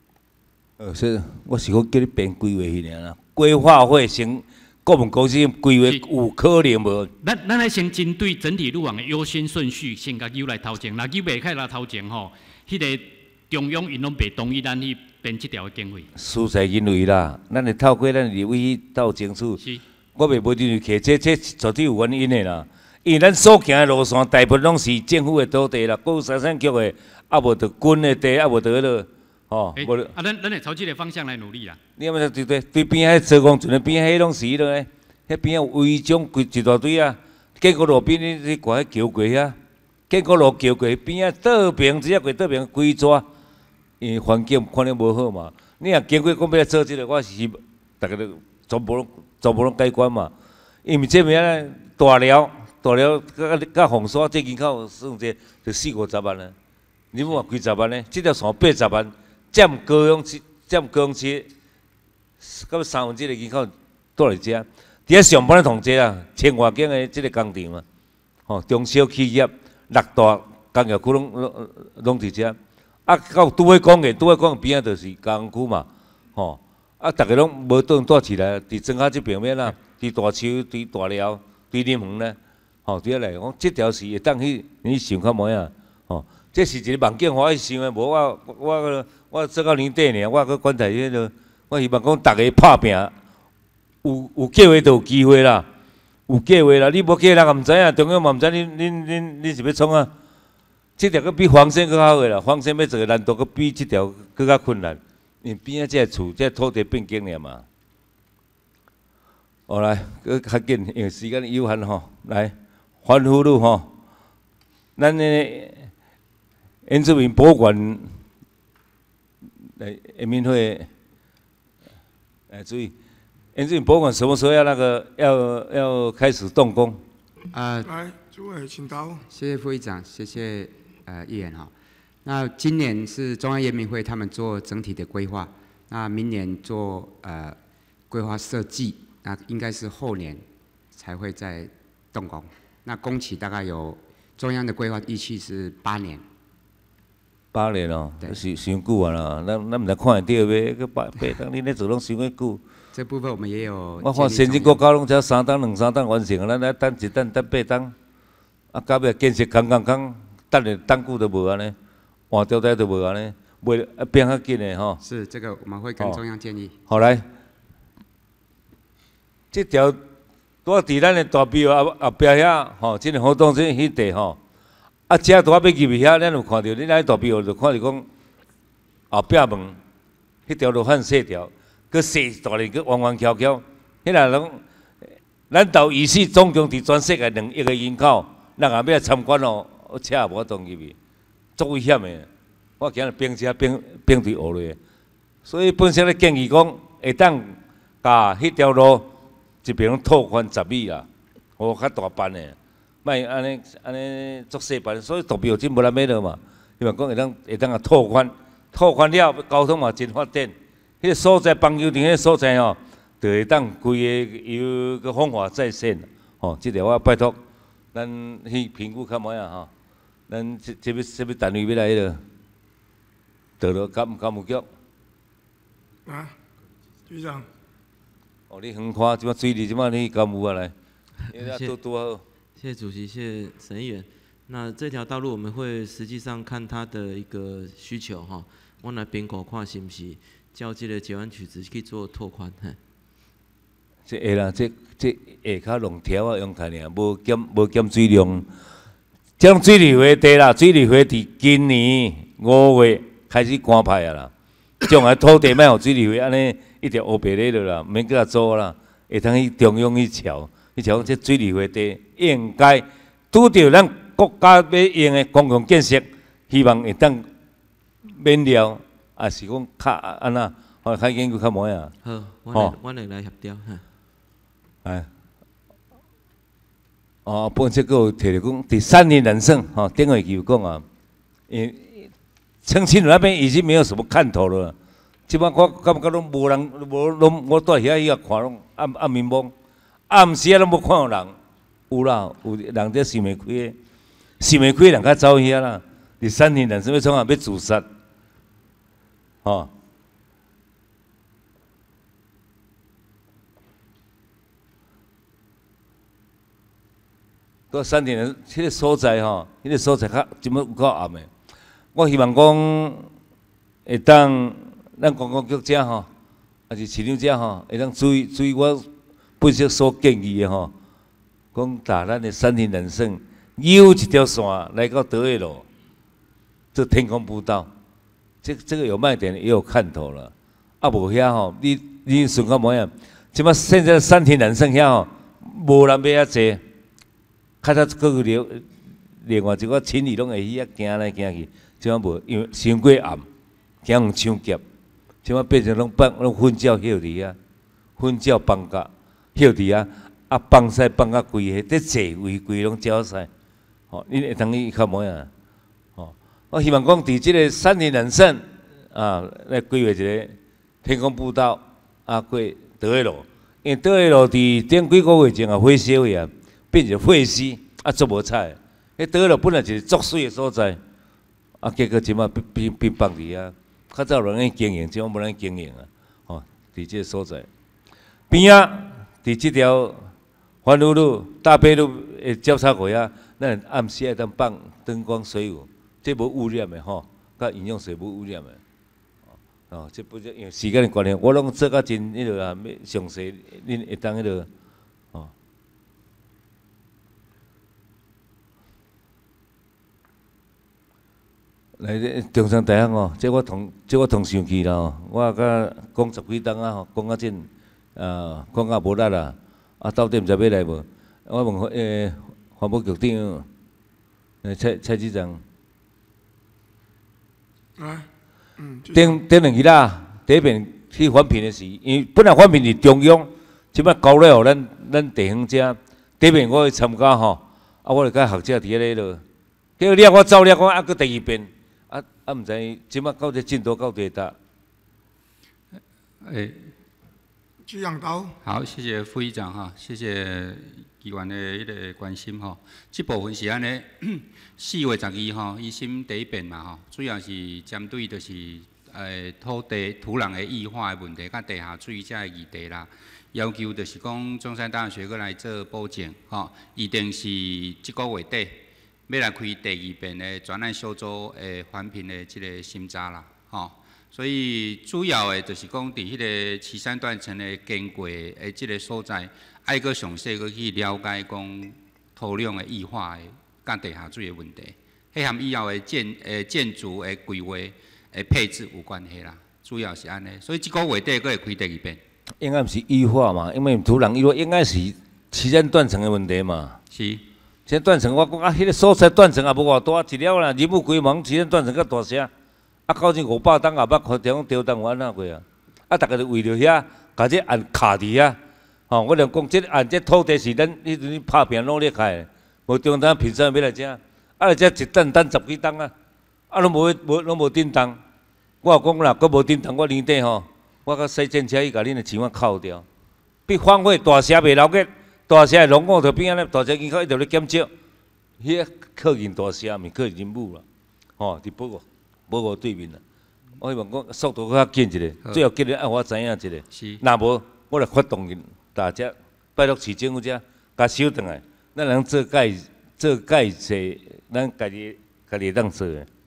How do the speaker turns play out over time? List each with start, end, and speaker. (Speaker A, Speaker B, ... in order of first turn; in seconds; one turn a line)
Speaker A: 0.8-7.1
Speaker B: 7.2-16.1
Speaker A: 16.1-19.6
Speaker A: 20.2-30.1
Speaker B: 29.8-31.8
Speaker A: 32.0-39.6
Speaker A: 40.1-43.3
Speaker A: 44.0-50.3
Speaker A: 50.9-56.5
Speaker A: 57.1-61.5
Speaker A: 62.4-67.8
Speaker A: 68.5-93.1
Speaker A: 94.0-95.7
Speaker A: 96.3-100.1
Speaker A: 101.0-107.7
Speaker A: 109.7-113.9
Speaker A: 115.0-115.9
Speaker A: 116.9-118.1
Speaker A: 119.8-120.9
Speaker A: 122.5-122.9
Speaker A: 123.5-127.0
Speaker C: 127.5-127.9
Speaker D: 127.8-129.2
Speaker C: 129.3-131.7
Speaker C: 132.2-137.6
Speaker C: 138.1-146.2
Speaker A: 147.5-152.6
Speaker C: 152.9-154.8
Speaker A: 154.0-157.9
Speaker A: 158.7-161.8
Speaker A: 162.3-165.0
Speaker C: 165.0-166.8
Speaker A: 166.9-167.3
Speaker A: 169.5-170.0
Speaker A: 170.7-174.4
Speaker A: 175.1-178.1
Speaker A: 179.1-179.8
Speaker A: 180.5-184.6
Speaker A: 185.5-191.0
Speaker A: 191.6-192.3
Speaker A: 192.8-194.8
Speaker A: 195.4-199.1
Speaker A: 199.6-201.1
Speaker A: 201.6-217.4
Speaker A: 217.9-219.7
Speaker A: 220.3-222.2
Speaker A: 223.6-224.7
Speaker D: 226.1-226.4
Speaker D: 227.1-227.5
Speaker A: 228.5-230.7
Speaker A: 231.3-232.2
Speaker E: 231.4-231.7
Speaker E: 232.6-242.8
Speaker A: 244.1-248.5
Speaker A: 249.4-254.3
Speaker A: 254.8-267.3
Speaker A: 268.0-271.9
Speaker E: 272.0-273.8
Speaker A: 277.2-280.9
Speaker A: 281.5-282.1
Speaker A: 282.6-284.8
Speaker A: 285.3-289.5
Speaker A: 290.1-291.4
Speaker A: 291.9-293.8
Speaker A: 294.4-297.9
Speaker A: 299.4-299.7
Speaker A: 307.7-311.3
Speaker A: 311.9-313.1
Speaker A: 313.9-316.1
Speaker A: 316.7-318.9
Speaker A: 319.4-320.7
Speaker A: 321.5-325.7
Speaker A: 326.7-327.7
Speaker A: 328.4-336.6
Speaker A: 337.6-338.7
Speaker A: 339.2-343.3
Speaker A: 343.8-344.6
Speaker A: 345.2-347.4
Speaker A: 348.0-353.3
Speaker A: 353.9-355.3
Speaker A: 356.0-370.8
Speaker A: 371.6-377.5
Speaker A: 378.3-380.1
Speaker A: 380.6-388.6
Speaker A: 389.7-394.5
Speaker A: 401.8-413.5
Speaker A: 414.4-415.4
Speaker D: 417.8-419.2
Speaker A: 418.9-429.2
Speaker A: 429.8-434.4
Speaker F: 436.2-436.7
Speaker D: 437.6-438.4
Speaker F: 438.4-482.0
Speaker A: 482.4-486.8
Speaker F: 486.9-487.2
Speaker A: 487.7-492.3
Speaker A: 492.9-498.4
Speaker A: 498.9-505.9
Speaker A: 506.5-508.0
Speaker A: 508.6-512.9
Speaker A: 513.5-517.7
Speaker A: 518.4-520.6
Speaker A: 521.2-523.0
Speaker A: 523.6-536.1
Speaker F: 526.7-527.0